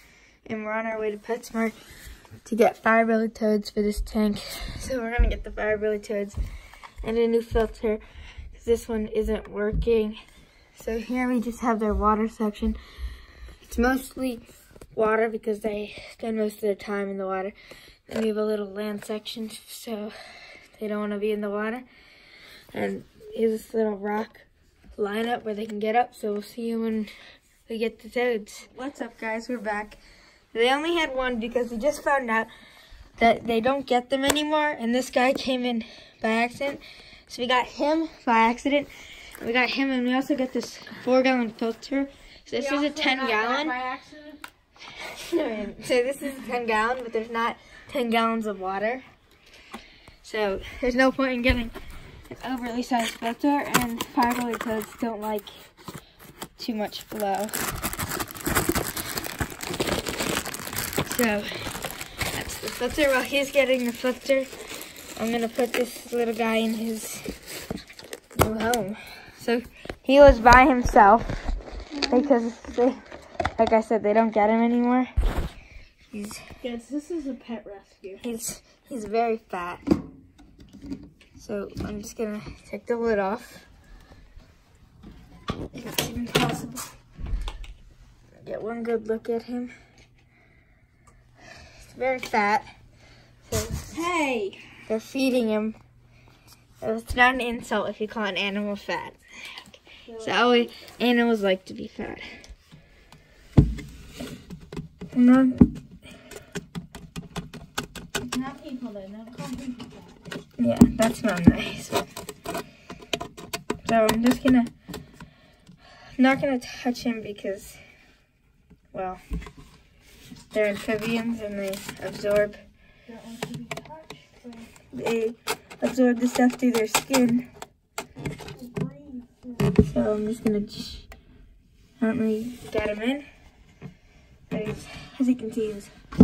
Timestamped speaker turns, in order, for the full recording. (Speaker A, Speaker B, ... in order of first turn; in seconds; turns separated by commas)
Speaker A: 0.5-1.8, Speaker A: 2.5-6.4, Speaker A: 7.0-10.2, Speaker A: 10.8-12.8, Speaker A: 13.6-17.5, Speaker A: 18.1-21.9, Speaker A: 22.7-27.1, Speaker A: 27.7-30.0, Speaker A: 30.5-32.5, Speaker A: 33.2-43.8, Speaker B: 42.5-44.4, Speaker A: 44.9-49.0, Speaker A: 50.2-51.7, Speaker A: 52.3-55.5, Speaker A: 56.6-57.6, Speaker A: 61.0-61.8, Speaker A: 62.3-64.5, Speaker A: 65.2-67.3, Speaker A: 68.3-71.5, Speaker B: 72.0-72.4, Speaker A: 72.0-73.0, Speaker A: 73.6-75.1, Speaker A: 76.1-76.4, Speaker B: 76.6-78.2, Speaker A: 78.2-79.9, Speaker A: 81.4-83.7, Speaker A: 85.7-86.9, Speaker A: 88.4-89.7, Speaker A: 91.9-92.7, Speaker A: 93.5-94.0, Speaker B: 93.9-94.6, Speaker A: 94.9-95.8, Speaker A: 96.8-102.3, Speaker B: 100.1-100.7, Speaker A: 105.1-105.7, Speaker B: 108.2-110.2, Speaker A: 110.6-112.1, Speaker A: 113.8-114.7, Speaker A: 116.2-117.8, Speaker A: 118.9-119.2, Speaker A: 120.5-122.6, Speaker B: 123.1-124.7, Speaker A: 124.9-127.5, Speaker B: 128.5-129.8, Speaker A: 129.8-131.1, Speaker A: 132.0-133.3, Speaker A: 134.5-135.9